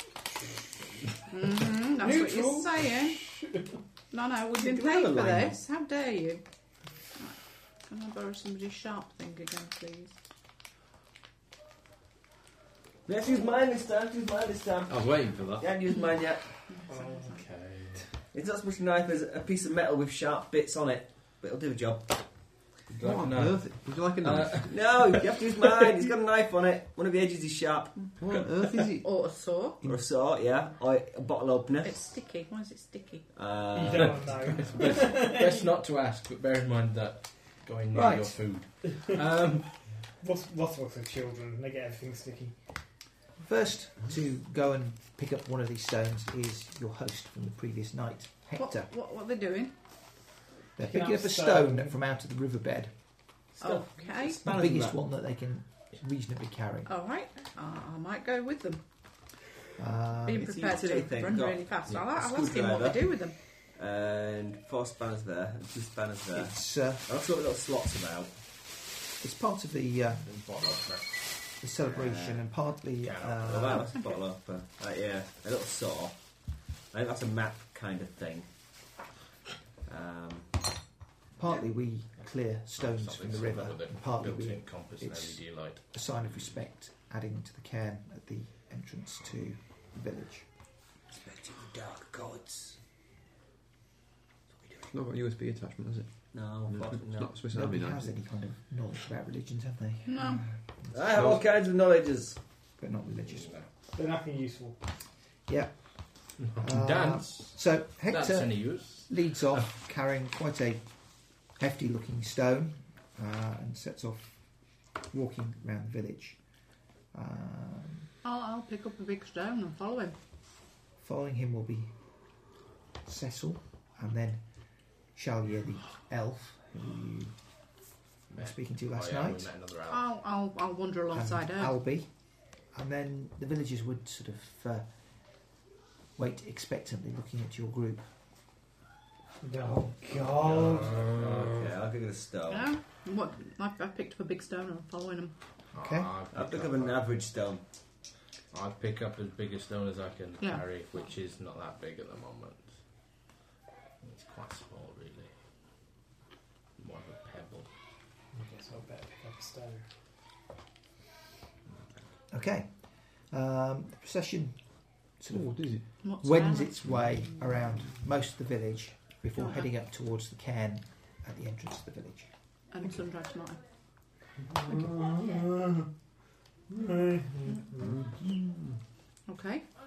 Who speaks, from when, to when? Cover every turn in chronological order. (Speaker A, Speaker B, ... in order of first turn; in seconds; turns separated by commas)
Speaker A: 1.3-3.2, Speaker B: 2.0-3.8, Speaker A: 4.1-6.4, Speaker C: 4.6-5.6, Speaker A: 7.2-10.1, Speaker C: 13.1-16.4, Speaker D: 14.9-15.7, Speaker A: 16.7-17.4, Speaker E: 16.9-18.0, Speaker C: 18.3-22.2, Speaker E: 22.9-25.3, Speaker D: 23.0-24.7, Speaker C: 24.7-28.1, Speaker D: 28.2-29.1, Speaker A: 29.0-29.8, Speaker C: 29.8-32.0, Speaker A: 31.8-33.2, Speaker C: 33.3-34.2, Speaker B: 33.7-35.7, Speaker E: 34.6-39.7, Speaker F: 37.9-38.5, Speaker B: 40.2-42.6, Speaker F: 43.4-48.9, Speaker A: 48.5-49.8, Speaker F: 50.8-53.0, Speaker B: 50.8-51.9, Speaker C: 53.6-55.0, Speaker A: 53.6-54.4, Speaker F: 54.4-56.9, Speaker A: 56.9-58.8, Speaker F: 59.8-60.6, Speaker A: 60.2-63.4, Speaker C: 60.5-63.2, Speaker C: 63.7-68.3, Speaker F: 66.3-67.0, Speaker F: 69.2-70.4, Speaker E: 70.2-71.3, Speaker F: 71.6-73.9, Speaker C: 71.8-72.5, Speaker E: 73.0-73.8, Speaker C: 73.4-76.2, Speaker C: 76.9-78.5, Speaker C: 79.8-80.5, Speaker F: 81.4-90.5, Speaker E: 82.8-86.2, Speaker C: 91.1-92.8, Speaker D: 94.8-96.1, Speaker C: 96.3-97.3, Speaker D: 96.7-98.1, Speaker F: 97.5-100.5, Speaker A: 100.1-100.5, Speaker C: 100.9-102.4, Speaker F: 102.8-103.5, Speaker E: 103.4-103.6, Speaker B: 103.9-104.8, Speaker F: 105.5-110.8, Speaker E: 106.4-107.5, Speaker E: 108.1-109.7, Speaker F: 111.5-114.4, Speaker F: 115.1-116.4, Speaker F: 117.1-118.1, Speaker A: 118.2-120.2, Speaker F: 121.0-121.9, Speaker F: 123.0-124.4, Speaker F: 125.1-127.3, Speaker F: 128.3-129.5, Speaker E: 128.3-130.1, Speaker A: 129.9-131.8, Speaker F: 131.1-132.1, Speaker F: 132.7-134.9, Speaker F: 136.2-138.1, Speaker B: 139.4-141.2, Speaker E: 140.4-141.7, Speaker C: 141.5-142.7, Speaker A: 142.5-145.3, Speaker E: 145.7-147.0, Speaker F: 145.8-146.1, Speaker C: 146.3-147.6, Speaker E: 148.5-152.8, Speaker A: 150.4-150.8, Speaker E: 154.0-155.3, Speaker E: 156.8-157.7, Speaker B: 158.3-159.9, Speaker F: 162.3-164.6, Speaker F: 165.2-172.3, Speaker D: 165.3-165.9, Speaker A: 166.0-166.8, Speaker A: 169.3-169.7, Speaker A: 172.7-173.7, Speaker B: 174.4-175.9, Speaker B: 176.7-178.2, Speaker D: 177.8-178.8, Speaker A: 179.3-179.7